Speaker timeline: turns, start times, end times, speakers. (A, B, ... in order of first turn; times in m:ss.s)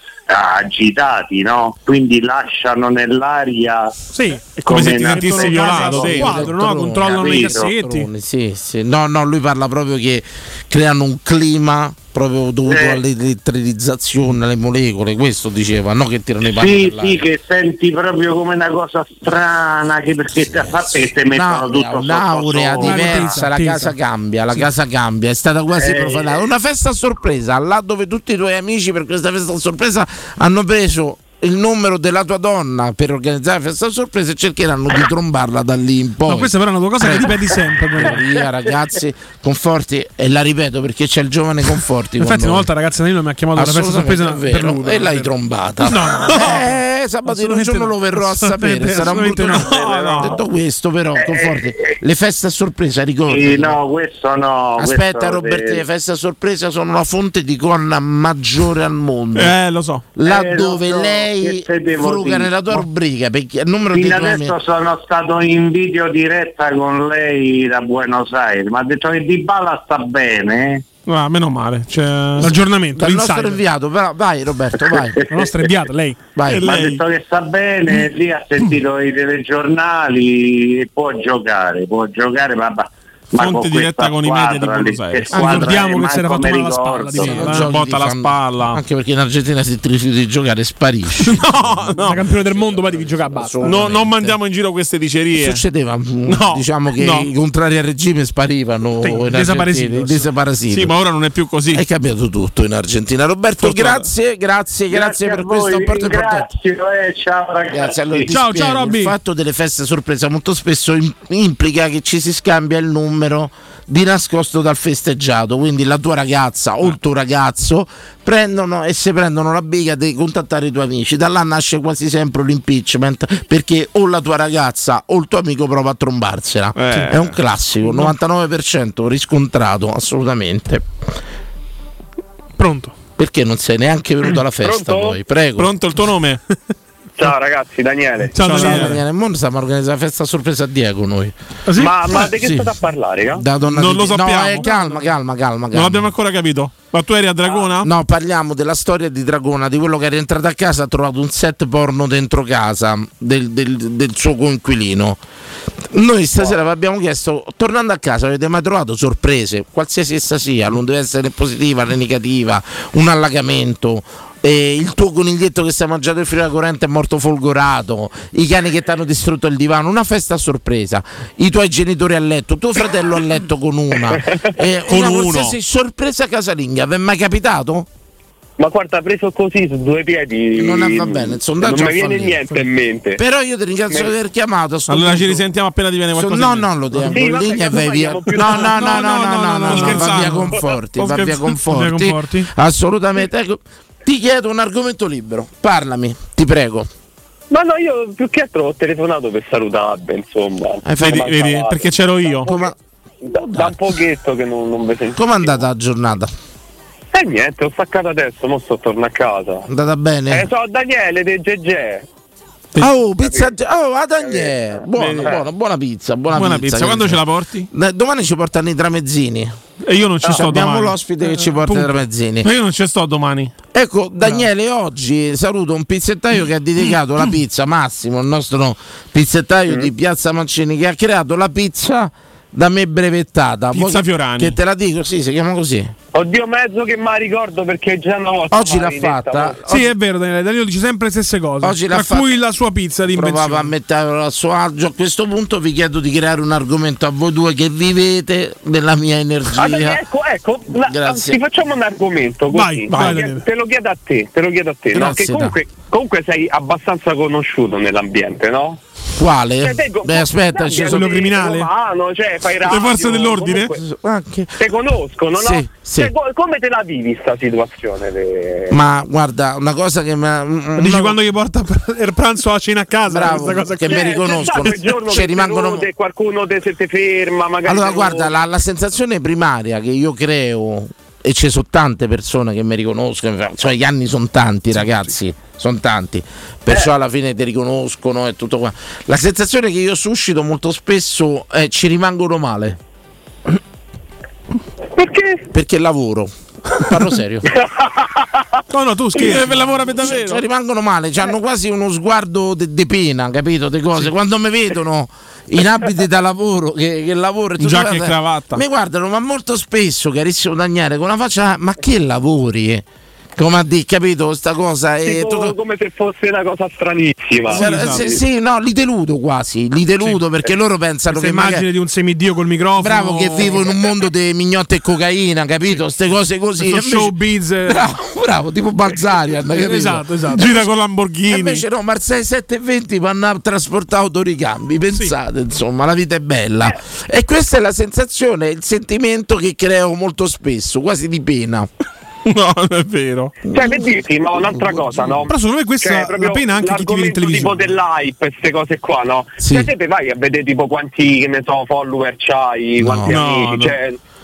0:00.3-0:04.0 A
0:04.1-0:08.1 B
0:04.6-0:06.5 C
0:04.6-0:06.2 A
0:05.8-0:17.2 D
0:07.0-0:07.7 A
0:12.7-0:13.0 A
0:16.5-0:23.3 A
0:20.9-0:42.7 D
0:22.8-0:23.9 B
0:25.8-0:26.4 A
0:36.3-0:38.2 B
0:42.2-0:45.3 B
0:43.6-0:53.8 D
0:45.8-0:46.7 B
0:47.3-0:50.2 B
0:49.6-0:50.3 C
0:51.2-0:51.7 A
0:53.3-0:55.8 A
0:54.8-0:59.5 D
0:59.4-1:00.1 C
1:00.2-1:04.6 D
1:00.2-1:02.6 A
1:03.9-1:10.8 A
1:11.1-1:12.5 C
1:12.4-1:13.6 B
1:13.0-1:15.2 D
1:15.2-1:15.7 A
1:15.3-1:16.2 B
1:16.4-1:16.7 D
1:16.5-1:17.0 C
1:16.5-1:27.4 A
1:23.4-1:25.8 C
1:25.4-1:25.8 D
1:25.4-1:27.7 B
1:27.1-1:31.9 D
1:27.4-1:28.8 C
1:31.2-1:32.2 C
1:32.0-1:33.8 B
1:32.6-1:34.4 D
1:33.6-1:35.6 C
1:35.4-1:40.9 D
1:36.3-1:37.3 C
1:39.0-1:40.2 B
1:40.7-1:41.8 C
1:41.7-1:46.5 D
1:43.6-1:44.1 C
1:44.9-1:48.2 A
1:47.7-2:10.8 D
1:48.3-1:49.2 B
2:06.8-2:07.4 C
2:12.6-2:13.0 B
2:13.2-2:15.7 D
2:14.6-2:15.2 E
2:15.6-2:16.4 C
2:17.2-2:18.4 E
2:18.3-2:19.0 B
2:18.4-2:19.0 C
2:18.4-2:21.3 D
2:21.7-2:22.3 B
2:21.8-2:23.4 E
2:22.2-2:22.7 D
2:23.3-2:26.1 D
2:23.7-2:24.7 C
2:25.7-2:27.9 C
2:27.8-2:35.2 D
2:35.9-2:57.9 D
2:54.9-2:55.6 C
2:58.6-3:03.2 E
3:00.5-3:02.5 D
3:03.2-3:05.4 D
3:04.9-3:07.1 C
3:06.2-3:16.9 D
3:07.1-3:09.0 E
3:08.4-3:10.4 B
3:08.8-3:11.6 C
3:11.7-3:12.5 B
3:17.5-3:22.7 E
3:20.8-3:21.2 D
3:21.0-3:22.5 C
3:22.4-3:22.7 D
3:23.2-3:25.6 E
3:23.3-3:23.8 D
3:25.1-3:26.3 D
3:27.1-3:29.7 E
3:29.7-3:30.5 D
3:30.3-3:32.1 E
3:32.8-3:39.6 D
3:35.0-3:35.4 C
3:36.3-3:37.7 C
3:39.8-3:41.0 C
3:40.2-3:42.5 D
3:41.4-3:41.9 B
3:42.4-3:43.5 C
3:43.7-3:55.9 D
3:53.7-3:54.6 C
3:56.1-3:59.6 E
3:58.5-3:59.9 D
3:59.6-4:03.7 B
4:01.6-4:02.3 D
4:03.1-4:10.0 D
4:09.6-4:18.8 E
4:10.8-4:11.4 D
4:12.5-4:13.4 B
4:12.9-4:13.2 C
4:14.9-4:15.6 D
4:19.2-4:21.2 D
4:19.6-4:23.8 E
4:20.9-4:21.7 B
4:22.6-4:23.8 C
4:23.7-4:24.7 D
4:24.6-4:28.8 E
4:25.4-4:26.1 D
4:28.7-4:31.2 D
4:30.8-4:34.7 B
4:33.1-4:35.9 D
4:33.9-4:38.4 E
4:37.6-4:52.8 D
4:55.0-4:55.4 E
4:55.5-4:57.5 D
4:58.7-4:59.6 B
4:59.2-5:00.4 C
5:00.0-5:12.8 D
5:07.6-5:08.6 C
5:13.4-5:15.6 D
5:15.0-5:17.7 E
5:17.5-5:21.7 D
5:17.5-5:18.2 C
5:21.1-5:23.7 B
5:22.8-5:27.1 D
5:26.6-5:27.8 B
5:27.7-5:30.1 D
5:29.5-5:30.5 B
5:30.3-5:31.6 C
5:31.3-5:41.7 D
5:42.3-5:43.4 C
5:43.5-5:45.3 D
5:43.5-5:54.0 E
5:45.3-5:47.7 B
5:49.4-5:49.7 D
5:52.8-5:53.2 D
5:53.0-5:53.8 C